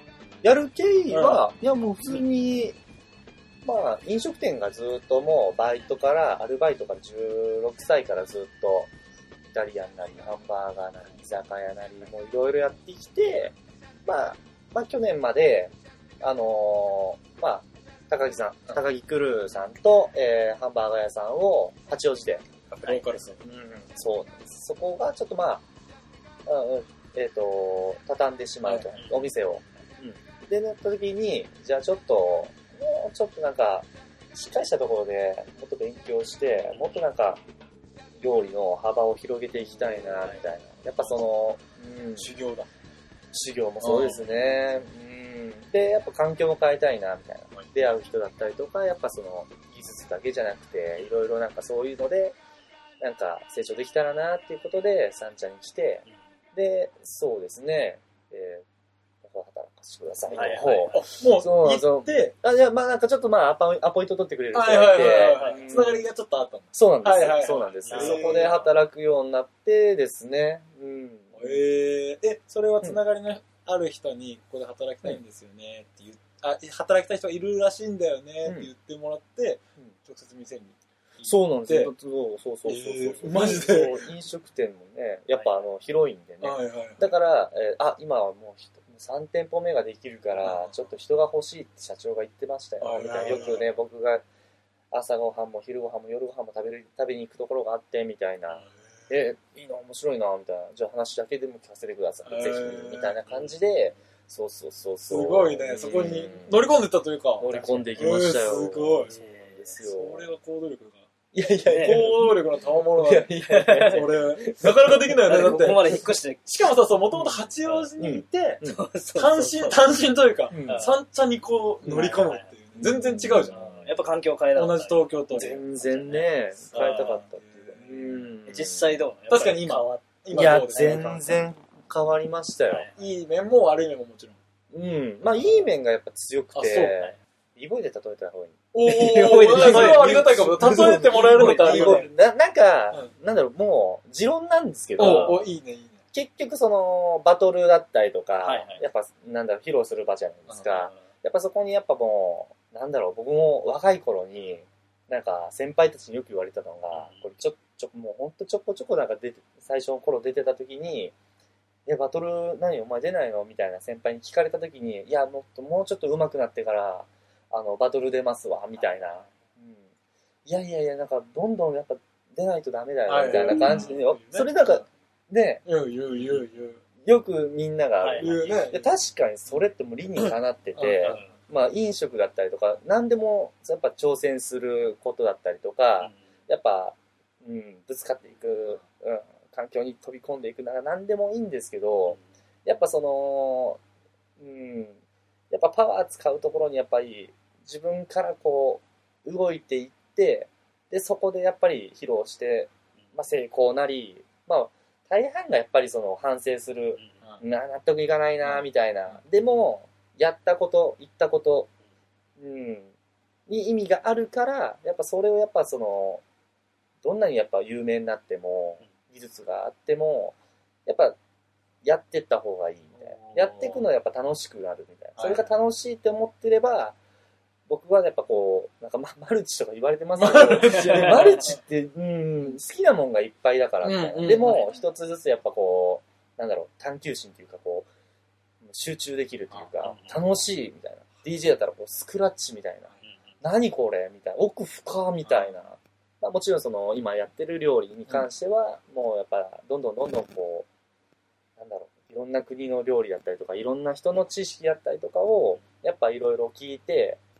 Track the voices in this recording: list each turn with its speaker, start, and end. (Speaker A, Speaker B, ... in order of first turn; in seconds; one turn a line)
Speaker A: 0.4-2.8
Speaker B: 1.1-1.4
Speaker A: 3.6-8.9
Speaker A: 9.5-13.5
Speaker A: 14.0-22.4
Speaker B: 22.7-23.4
Speaker A: 23.4-25.6
Speaker A: 26.4-37.4
Speaker C: 28.9-29.3
Speaker A: 38.2-42.3
Speaker B: 42.2-42.7
Speaker A: 43.3-52.4
Speaker B: 43.8-44.2
Speaker A: 53.0-58.6
Speaker A: 59.2-66.0
Speaker C: 60.3-61.1
Speaker B: 60.9-62.3
Speaker B: 64.5-68.6
Speaker C: 65.3-65.6
Speaker A: 66.7-71.6
Speaker C: 67.8-68.7
Speaker B: 71.3-81.9
Speaker A: 78.4-78.7
Speaker A: 81.2-94.2
Speaker B: 82.7-84.1
Speaker B: 86.4-87.1
Speaker B: 90.4-90.7
Speaker B: 92.8-93.7
Speaker A: 94.9-106.7
Speaker B: 102.2-103.2
Speaker C: 103.3-103.5
Speaker B: 105.1-109.2
Speaker A: 107.4-110.3
Speaker C: 107.5-108.0
Speaker C: 109.0-109.8
Speaker B: 109.8-111.1
Speaker A: 111.3-112.4
Speaker C: 111.6-112.1
Speaker B: 111.8-118.6
Speaker A: 112.9-115.2
Speaker C: 113.5-114.0
Speaker C: 115.2-116.4
Speaker A: 118.0-118.8
Speaker C: 118.6-119.8
Speaker B: 119.2-123.8
Speaker A: 120.5-120.9
Speaker C: 120.6-121.0
Speaker A: 121.9-122.2
Speaker C: 121.9-122.5
Speaker A: 122.8-123.6
Speaker C: 123.5-125.0
Speaker B: 124.5-125.6
Speaker A: 125.3-128.9
Speaker C: 125.8-127.2
Speaker B: 126.7-128.3
Speaker C: 128.4-131.4
Speaker B: 129.3-131.2
Speaker A: 130.3-132.9
Speaker C: 132.7-132.9
Speaker B: 132.9-134.4
Speaker A: 134.7-138.6
Speaker B: 136.5-137.0
Speaker B: 138.7-142.1
Speaker C: 138.8-142.1
Speaker A: 139.4-145.4
Speaker B: 145.0-146.0
Speaker C: 145.0-145.4
Speaker A: 146.1-161.1
Speaker C: 148.4-148.8
Speaker C: 150.7-151.1
Speaker C: 156.9-157.2
Speaker A: 161.8-169.8
Speaker C: 168.8-169.3
Speaker A: 170.4-175.6
Speaker B: 173.1-174.8
Speaker C: 173.4-173.9
Speaker B: 175.6-176.8
Speaker A: 177.0-193.8
Speaker C: 178.0-178.4
Speaker B: 178.2-178.9
Speaker B: 180.8-181.0
Speaker C: 180.9-181.3
Speaker C: 186.0-186.2
Speaker A: 194.4-195.0
Speaker A: 195.5-211.7
Speaker A: 212.4-212.9
Speaker A: 213.5-216.2
Speaker A: 217.0-221.2
Speaker A: 221.8-227.0
Speaker B: 223.0-223.8
Speaker B: 225.2-225.5
Speaker A: 227.7-237.9
Speaker B: 230.2-231.6
Speaker C: 230.7-231.4
Speaker B: 233.8-234.6
Speaker C: 234.3-234.7
Speaker A: 238.6-250.7
Speaker C: 239.8-240.2
Speaker B: 245.2-245.6
Speaker A: 251.6-257.2